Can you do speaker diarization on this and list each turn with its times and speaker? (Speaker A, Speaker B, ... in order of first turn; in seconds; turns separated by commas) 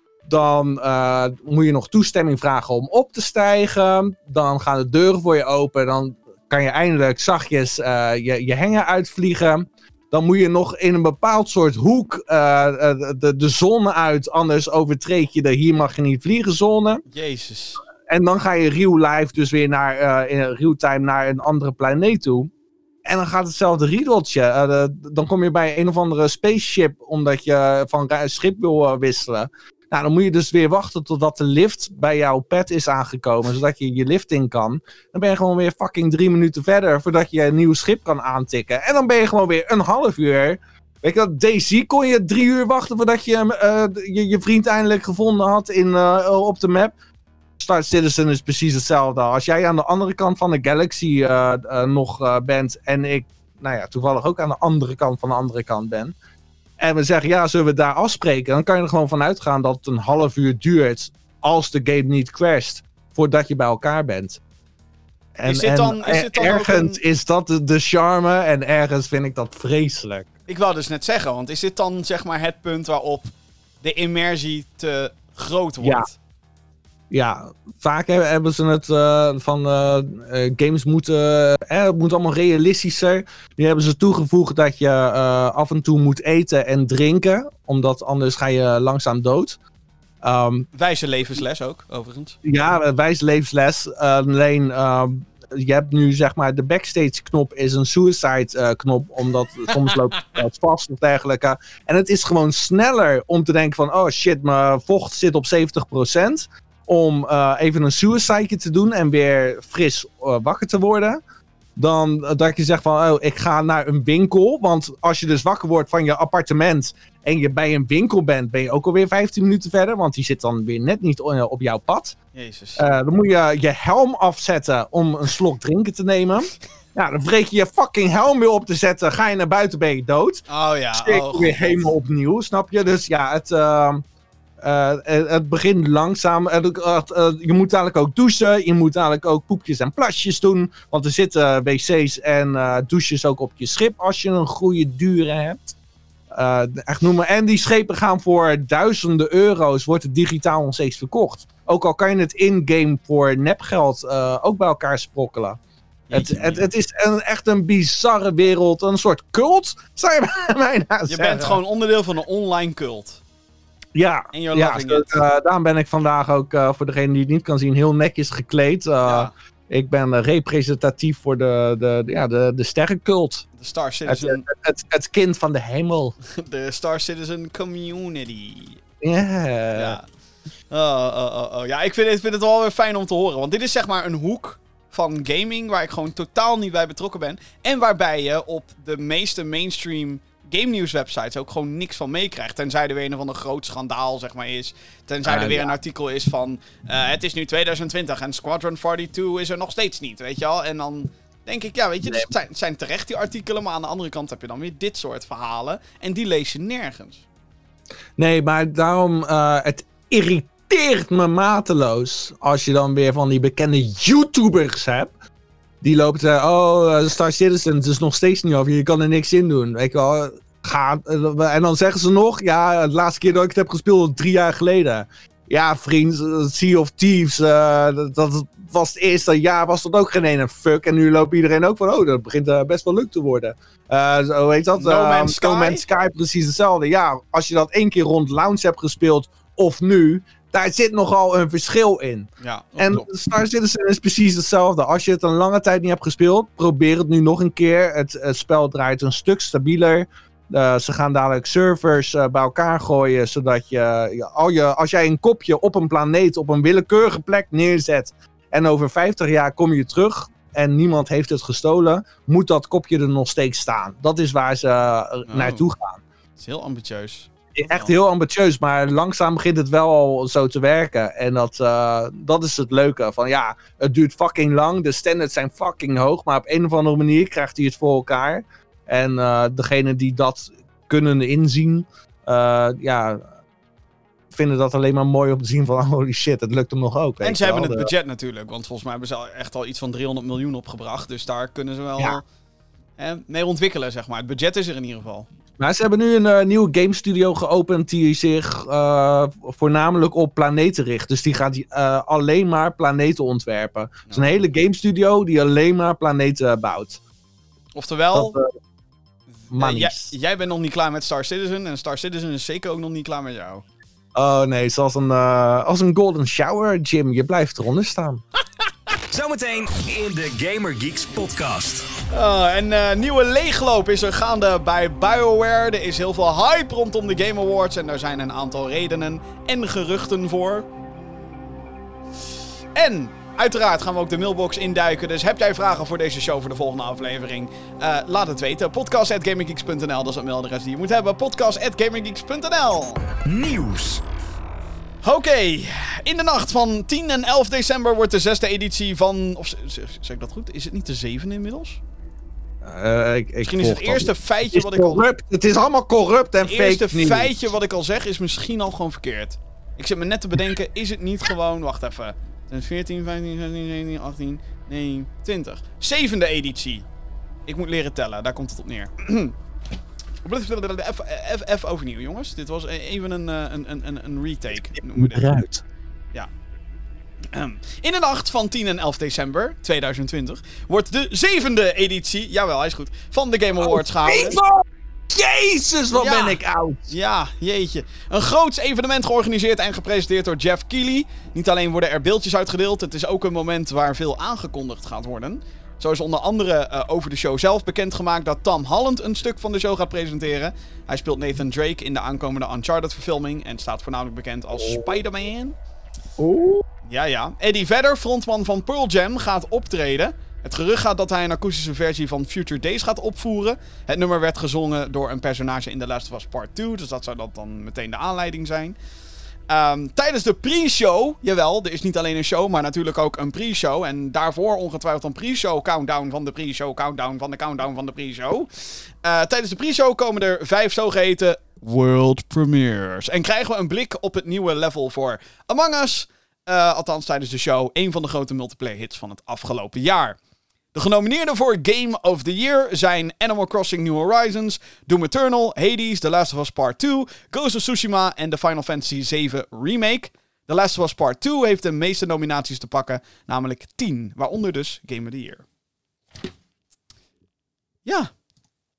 Speaker A: 0.3-17.1, Speaker B: 17.1-17.8, Speaker A: 18.1-22.5, Speaker A: 23.1-47.0, Speaker A: 47.6-56.1, Speaker A: 56.8-64.4, Speaker A: 65.4-70.3, Speaker B: 65.5-67.0, Speaker B: 70.5-73.3, Speaker B: 73.8-76.2, Speaker A: 75.8-76.1, Speaker A: 77.1-89.6, Speaker A: 90.2-90.7, Speaker B: 90.7-92.4, Speaker A: 92.4-111.2, Speaker B: 99.9-100.3, Speaker A: 111.8-122.2, Speaker B: 122.3-122.8, Speaker A: 122.8-134.1, Speaker B: 130.5-131.9, Speaker A: 134.6-145.8, Speaker A: 146.3-155.6, Speaker B: 156.1-156.7, Speaker A: 156.1-161.6, Speaker B: 161.1-163.2, Speaker A: 163.9-173.5, Speaker B: 164.3-165.2, Speaker B: 169.0-169.3, Speaker B: 173.6-174.4, Speaker A: 174.1-176.2, Speaker B: 176.3-178.8, Speaker A: 179.0-180.0, Speaker B: 179.8-180.1, Speaker B: 180.7-207.2, Speaker A: 195.2-195.7, Speaker A: 208.2-215.1, Speaker A: 215.8-266.0, Speaker B: 234.8-235.8, Speaker B: 242.4-243.1, Speaker B: 265.3-265.7, Speaker B: 266.4-267.9, Speaker A: 267.6-283.2, Speaker A: 284.3-287.9, Speaker B: 287.2-292.2, Speaker B: 293.0-295.3, Speaker A: 295.6-307.0, Speaker B: 304.1-304.4, Speaker B: 307.8-308.4, Speaker A: 308.1-308.5, Speaker B: 309.5-313.6, Speaker A: 309.5-310.1, Speaker A: 314.1-318.2, Speaker C: 319.1-321.9, Speaker B: 322.1-330.7, Speaker B: 332.8-343.0, Speaker C: 343.2-344.0, Speaker B: 345.0-351.8, Speaker A: 352.6-357.5, Speaker B: 353.4-355.1, Speaker B: 356.4-366.9, Speaker B: 367.5-369.4, Speaker B: 370.2-375.3, Speaker A: 374.8-375.6, Speaker B: 377.3-384.4, Speaker A: 383.6-386.9, Speaker B: 385.9-405.6, Speaker A: 406.2-406.7, Speaker B: 406.9-418.8, Speaker B: 419.5-440.2, Speaker B: 440.7-455.4